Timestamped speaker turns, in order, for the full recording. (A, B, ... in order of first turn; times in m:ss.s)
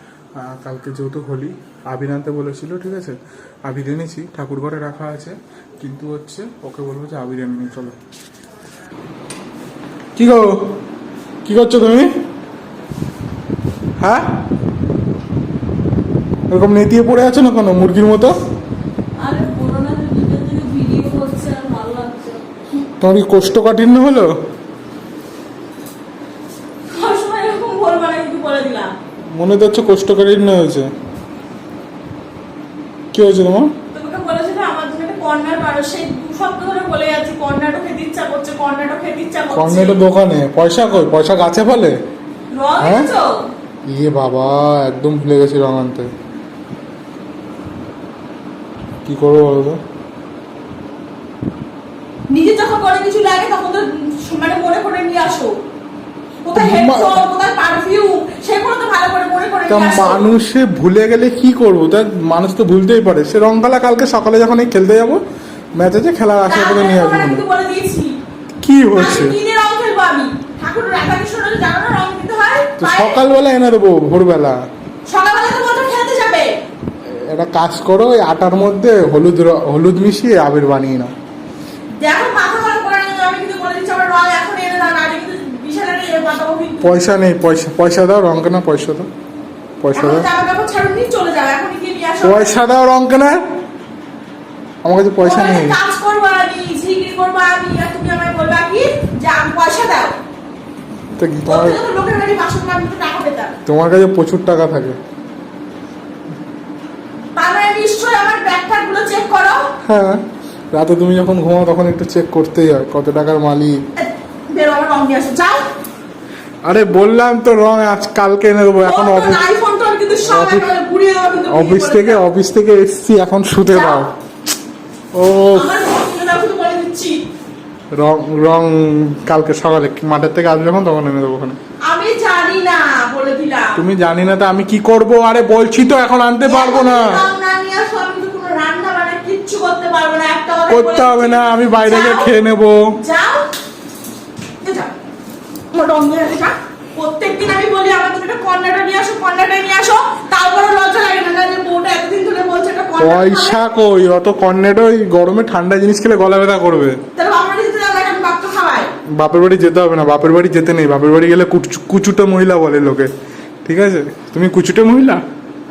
0:00.4-0:03.2 A
0:03.7-0:08.0 A
0:10.2-0:10.8 A
0:11.4-0:12.1 A
0:14.0-0:14.3 A
0:16.5-0:18.4 A
0:19.2-0:22.4 B
0:23.0-0:24.3 A
0:26.9-0:28.9 B
0:29.3-0:30.9 A
0:33.1-0:33.7 A
0:33.9-0:40.0 B
0:39.5-0:42.0 A
0:42.5-0:43.4 B
0:42.8-0:43.1 A
0:43.9-0:46.1 A
0:49.1-0:49.8 A
0:52.3-0:55.5 B
0:56.4-1:00.3 B
0:56.6-0:57.2 A
0:59.7-1:05.2 A
1:05.8-1:07.4 A
1:06.5-1:08.2 B
1:08.6-1:09.4 A
1:08.9-1:13.2 B
1:12.8-1:14.6 A
1:15.1-1:16.5 B
1:17.1-1:21.1 A
1:22.0-1:26.9 B
1:26.8-1:29.1 A
1:29.8-1:30.3 A
1:29.9-1:32.6 B
1:32.2-1:33.4 A
1:34.8-1:35.8 A
1:35.2-1:40.2 B
1:41.2-1:41.8 A
1:41.5-1:43.6 B
1:43.7-1:45.0 A
1:47.4-1:49.7 B
1:49.8-1:53.8 A
1:54.0-1:55.6 B
1:56.6-1:59.4 A
1:58.8-2:02.2 B
2:00.2-2:00.7 A
2:01.5-2:04.1 A
2:03.7-2:04.1 B
2:05.1-2:05.7 A
2:05.5-2:07.2 B
2:07.9-2:11.6 A
2:11.9-2:13.8 B
2:13.8-2:17.3 A
2:16.5-2:22.4 B
2:20.7-2:23.0 A
2:23.0-2:23.4 B
2:24.6-2:24.9 B
2:25.7-2:33.7 B
2:33.0-2:37.0 A
2:37.2-2:38.9 B
2:39.2-2:43.1 A
2:43.6-2:45.2 A